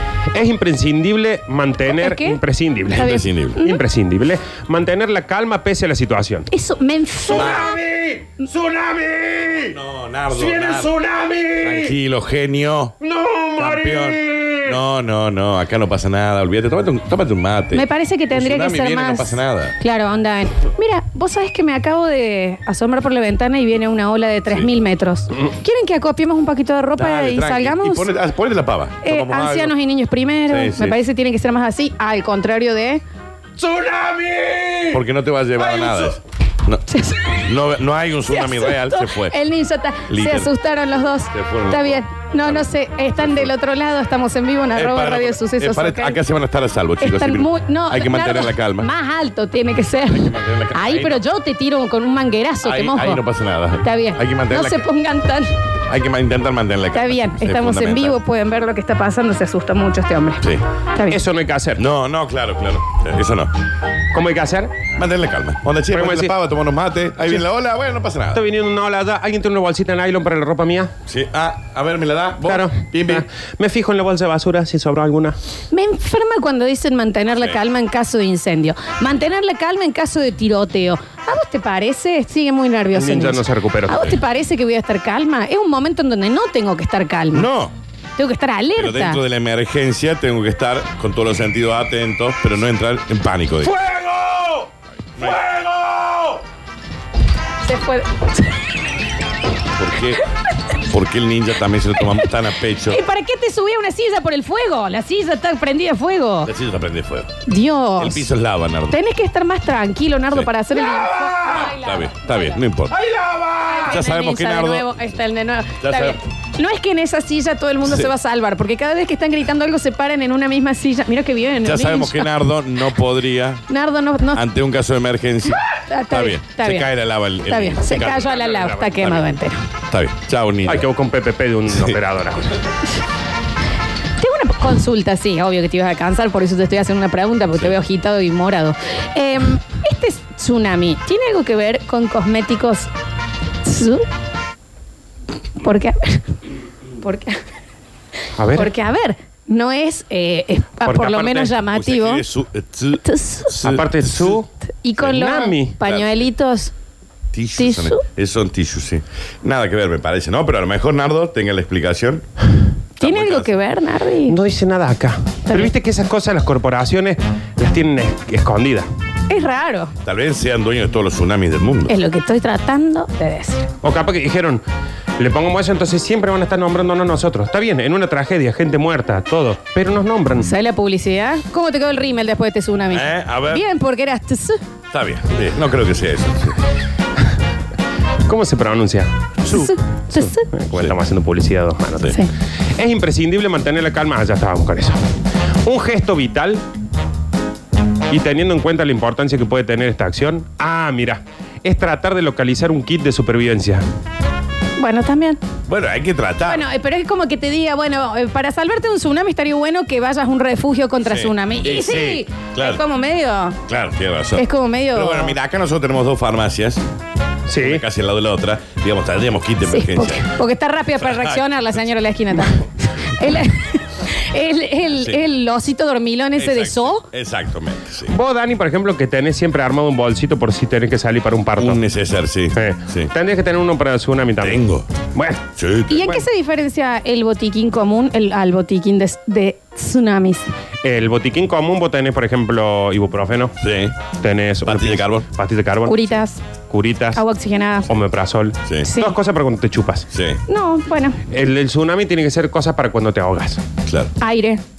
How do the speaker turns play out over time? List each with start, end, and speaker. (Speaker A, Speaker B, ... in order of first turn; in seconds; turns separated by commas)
Speaker A: 0.3-6.5, Speaker B: 1.9-2.4, Speaker B: 2.9-3.8, Speaker C: 3.0-3.6, Speaker B: 6.5-7.6, Speaker A: 7.3-9.8, Speaker C: 7.3-7.7, Speaker C: 9.7-10.9, Speaker A: 10.3-12.0, Speaker C: 11.6-13.0, Speaker A: 13.0-14.8, Speaker C: 13.6-19.8, Speaker B: 17.7-28.1, Speaker C: 27.0-29.7, Speaker B: 29.0-33.0, Speaker C: 30.5-31.0, Speaker A: 33.6-35.0, Speaker C: 34.9-36.8, Speaker A: 35.6-36.1, Speaker B: 36.9-37.5, Speaker C: 37.4-39.4, Speaker B: 38.3-46.2, Speaker C: 40.1-40.5, Speaker C: 41.3-42.7, Speaker C: 43.2-43.5, Speaker C: 44.7-48.9, Speaker B: 47.0-53.2, Speaker C: 50.1-51.2, Speaker C: 52.6-54.9, Speaker B: 53.8-55.6, Speaker C: 55.9-58.2, Speaker B: 56.9-61.2, Speaker A: 61.1-61.8, Speaker C: 61.8-63.5, Speaker A: 64.1-64.8, Speaker C: 65.0-68.4, Speaker A: 65.9-66.3, Speaker A: 68.3-70.9, Speaker C: 71.1-73.2, Speaker A: 72.4-75.4, Speaker B: 75.7-87.5, Speaker A: 82.9-84.2, Speaker C: 87.3-87.8, Speaker B: 88.2-89.2, Speaker C: 88.8-93.8, Speaker A: 93.7-94.7, Speaker C: 95.2-95.5, Speaker A: 95.2-96.4, Speaker B: 97.6-98.6, Speaker C: 99.8-100.3, Speaker C: 100.8-103.0, Speaker B: 102.0-102.3, Speaker B: 102.9-106.5, Speaker C: 106.5-107.3, Speaker B: 107.5-108.3, Speaker C: 108.0-109.0, Speaker B: 108.9-112.6, Speaker C: 110.3-114.9, Speaker A: 113.1-113.7, Speaker B: 113.7-122.3, Speaker C: 115.8-116.2, Speaker C: 117.8-118.1, Speaker C: 121.6-123.7, Speaker B: 123.7-124.4, Speaker C: 124.3-128.3, Speaker B: 125.7-126.9, Speaker B: 127.5-129.6, Speaker A: 128.0-129.2, Speaker C: 129.9-130.8, Speaker A: 130.7-132.6, Speaker B: 134.2-142.9, Speaker B: 143.6-144.1, Speaker B: 145.6-146.4, Speaker B: 147.0-147.4, Speaker A: 148.4-148.7, Speaker B: 148.5-152.2, Speaker A: 150.8-151.6, Speaker C: 151.7-154.4, Speaker B: 153.1-153.6, Speaker A: 153.6-154.5, Speaker B: 154.8-156.7, Speaker A: 155.0-155.8, Speaker C: 155.8-156.2, Speaker C: 157.3-162.3, Speaker B: 157.6-158.0, Speaker B: 163.0-164.4, Speaker C: 163.0-163.5, Speaker A: 164.3-168.9, Speaker B: 169.3-169.9, Speaker C: 170.0-171.9, Speaker B: 171.9-173.7, Speaker A: 173.8-174.6, Speaker A: 175.2-180.5, Speaker B: 180.4-184.6, Speaker C: 182.9-183.6, Speaker C: 184.9-186.6, Speaker A: 188.3-195.0, Speaker B: 189.5-190.5, Speaker A: 195.7-196.6, Speaker A: 198.1-203.8, Speaker B: 204.8-205.4, Speaker C: 205.7-206.7, Speaker B: 206.5-213.6, Speaker C: 211.1-212.8, Speaker C: 213.7-216.8, Speaker B: 214.3-215.4, Speaker A: 217.5-217.8, Speaker C: 217.6-220.3, Speaker B: 219.7-227.1, Speaker C: 221.1-221.4, Speaker C: 224.9-225.2, Speaker C: 226.4-228.1, Speaker A: 228.1-231.8, Speaker C: 231.6-233.1, Speaker A: 232.5-234.6, Speaker C: 234.4-234.9, Speaker A: 235.1-235.4, Speaker C: 235.6-236.1, Speaker B: 235.9-240.5, Speaker A: 240.8-243.5, Speaker C: 243.6-243.9, Speaker A: 244.2-246.1, Speaker C: 244.7-245.3, Speaker B: 245.9-246.4, Speaker A: 246.7-247.2, Speaker B: 247.2-247.9, Speaker A: 247.9-250.1, Speaker B: 248.8-249.2, Speaker C: 250.1-250.4, Speaker B: 250.5-251.2, Speaker A: 251.3-253.6, Speaker C: 253.8-254.1, Speaker B: 254.2-254.6